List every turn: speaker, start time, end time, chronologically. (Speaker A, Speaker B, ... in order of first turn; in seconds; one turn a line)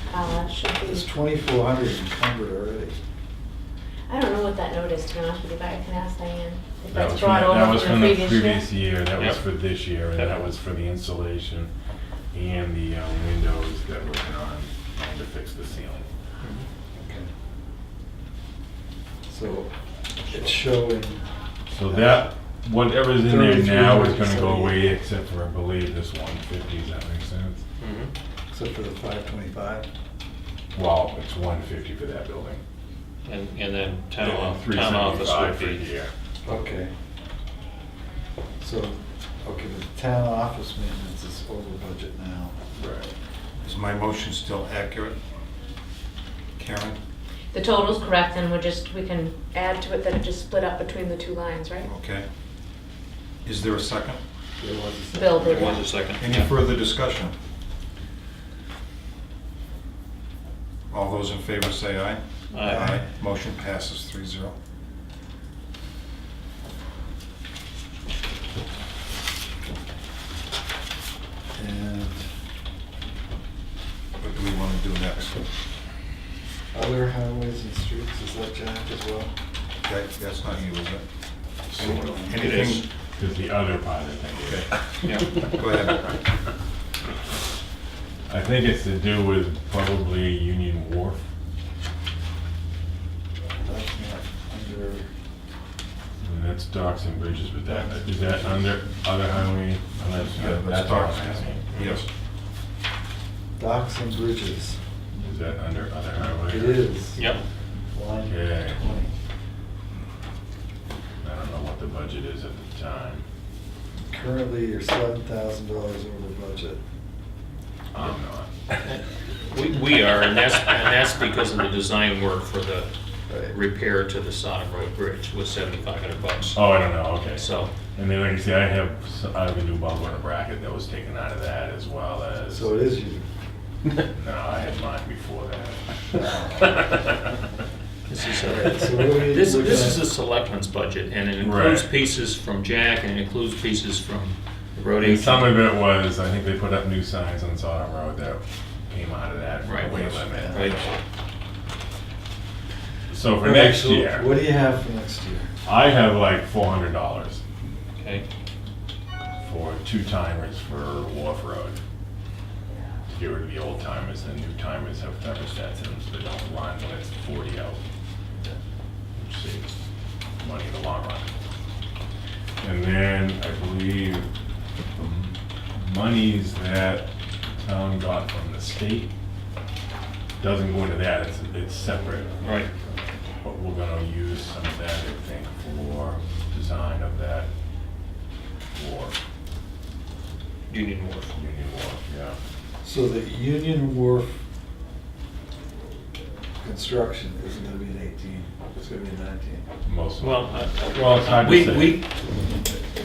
Speaker A: 0.1-1.1
Speaker B: 0.8-3.0
Speaker A: 4.1-8.7
Speaker C: 6.9-11.7
Speaker C: 12.3-16.1
Speaker B: 17.0-17.3
Speaker B: 19.3-19.7
Speaker B: 20.2-21.2
Speaker C: 21.7-27.6
Speaker B: 21.9-22.3
Speaker B: 23.2-24.9
Speaker D: 27.8-28.1
Speaker B: 28.5-29.9
Speaker C: 30.7-32.6
Speaker D: 33.2-35.9
Speaker C: 34.2-36.1
Speaker B: 36.5-36.9
Speaker B: 38.6-42.6
Speaker C: 42.8-43.1
Speaker E: 43.6-45.2
Speaker E: 46.6-47.0
Speaker A: 47.5-51.9
Speaker E: 51.9-52.3
Speaker E: 53.5-54.2
Speaker B: 54.6-55.8
Speaker A: 55.1-55.8
Speaker D: 55.5-56.5
Speaker E: 56.1-57.3
Speaker E: 60.9-64.6
Speaker D: 62.5-63.0
Speaker B: 71.5-72.3
Speaker E: 74.2-75.5
Speaker B: 76.7-79.3
Speaker E: 79.8-81.0
Speaker C: 81.7-85.1
Speaker E: 81.8-82.8
Speaker D: 82.3-82.8
Speaker D: 85.0-85.5
Speaker E: 85.4-86.2
Speaker C: 88.3-91.2
Speaker B: 93.6-95.1
Speaker C: 96.2-102.0
Speaker B: 97.9-98.3
Speaker E: 100.4-102.1
Speaker B: 103.6-104.8
Speaker C: 105.2-106.9
Speaker B: 106.5-107.3
Speaker B: 107.9-109.1
Speaker C: 108.3-108.8
Speaker C: 111.2-113.2
Speaker B: 114.1-116.8
Speaker C: 117.9-118.9
Speaker D: 118.8-127.7
Speaker C: 126.5-132.8
Speaker B: 132.5-133.3
Speaker C: 134.0-137.3
Speaker D: 138.1-145.7
Speaker B: 138.5-140.1
Speaker C: 141.4-141.9
Speaker C: 145.0-150.8
Speaker D: 149.6-150.8
Speaker B: 149.9-150.8
Speaker C: 153.1-154.4
Speaker B: 153.4-155.5
Speaker C: 155.7-157.4
Speaker D: 158.0-158.3
Speaker C: 159.4-161.8
Speaker C: 163.1-167.8
Speaker C: 169.2-169.8
Speaker C: 170.4-171.3
Speaker C: 172.6-174.3
Speaker C: 174.9-179.1
Speaker C: 180.4-187.5
Speaker D: 182.4-182.7
Speaker C: 188.7-189.2
Speaker D: 190.7-191.3
Speaker C: 191.3-192.4
Speaker B: 192.8-194.3
Speaker B: 196.6-199.6
Speaker C: 199.8-202.0
Speaker D: 200.2-202.1